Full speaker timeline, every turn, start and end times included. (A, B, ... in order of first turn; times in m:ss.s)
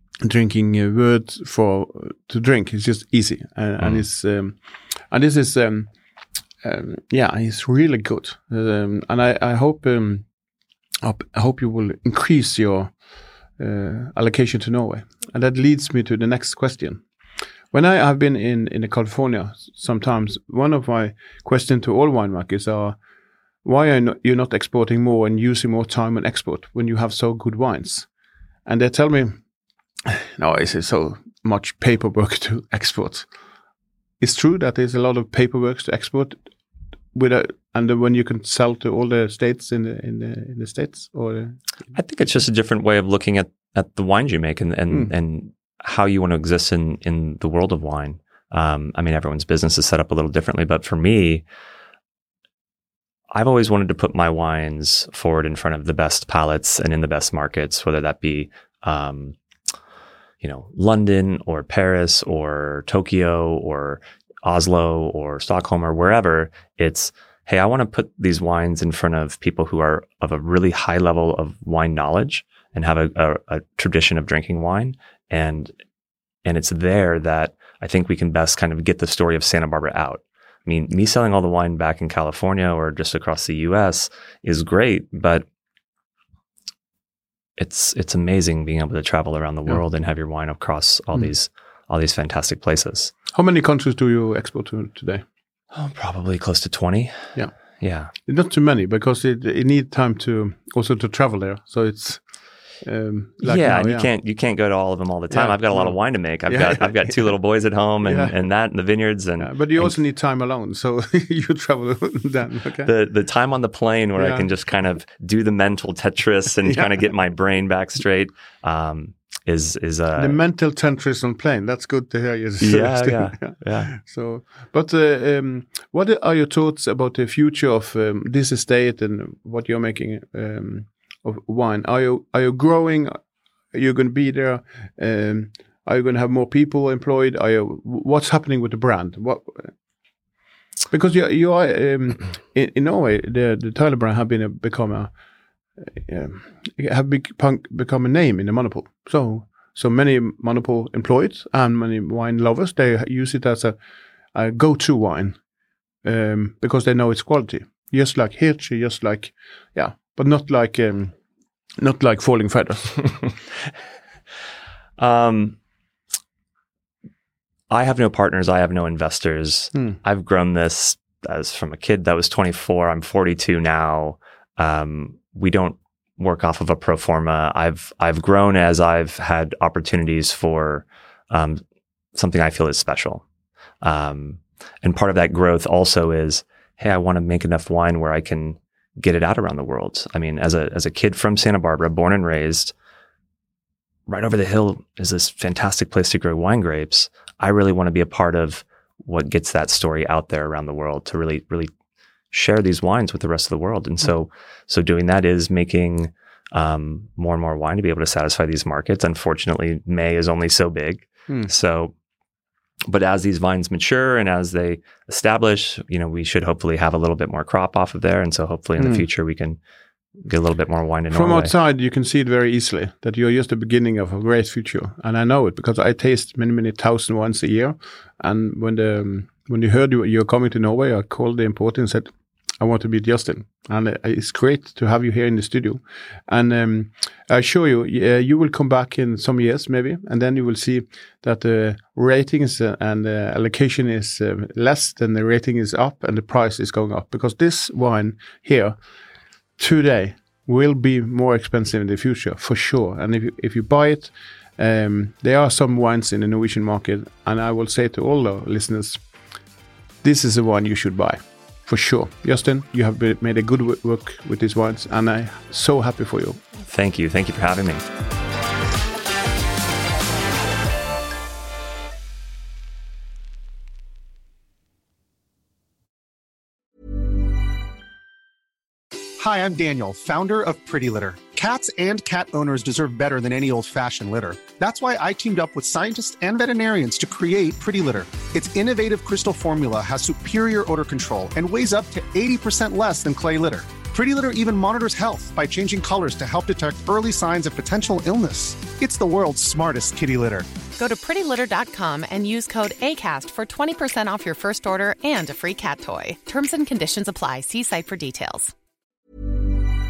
0:00.2-0:04.6 A
0:05.1-0:05.9 A
0:06.6-0:10.2 A
0:11.0-0:12.9 A
0:13.6-0:17.0 A
0:17.7-0:23.0 A
0:23.6-0:28.1 A
0:28.6-0:29.4 A
0:30.0-0:33.3 A
0:34.2-0:36.5 A
0:37.1-0:41.6 A
0:41.9-0:51.4 B
0:53.3-0:59.3 B
1:00.4-1:15.7 B
1:16.4-1:25.4 B
1:27.6-1:33.1 B
1:33.3-1:35.2 A
1:35.7-1:38.1 B
1:38.2-1:42.2 A
1:42.8-1:44.1 A
1:43.4-1:49.9 B
1:45.3-1:47.3 A
1:48.0-1:48.3 A
1:49.4-1:52.9 A
1:52.8-2:00.4 B
1:54.2-1:54.5 A
2:00.2-2:13.2 A
2:02.6-2:03.9 B
2:13.7-2:19.7 A
2:20.9-2:25.1 A
2:25.9-2:33.8 A
2:34.3-2:35.4 A
2:36.0-2:41.1 A
2:41.8-2:43.1 A
2:45.0-2:45.6 B
2:47.7-3:01.6 B
3:02.1-3:03.2 B
3:03.8-3:12.7 B
3:14.1-3:21.7 B
3:22.3-3:31.9 B
3:32.9-3:39.6 B
3:38.8-3:39.0 A
3:40.2-3:41.5 B
3:41.1-4:08.8 A
4:09.6-4:19.0 A
4:20.0-4:26.4 A
4:26.6-4:27.8 B
4:39.2-5:00.5 C
5:00.8-5:08.5 D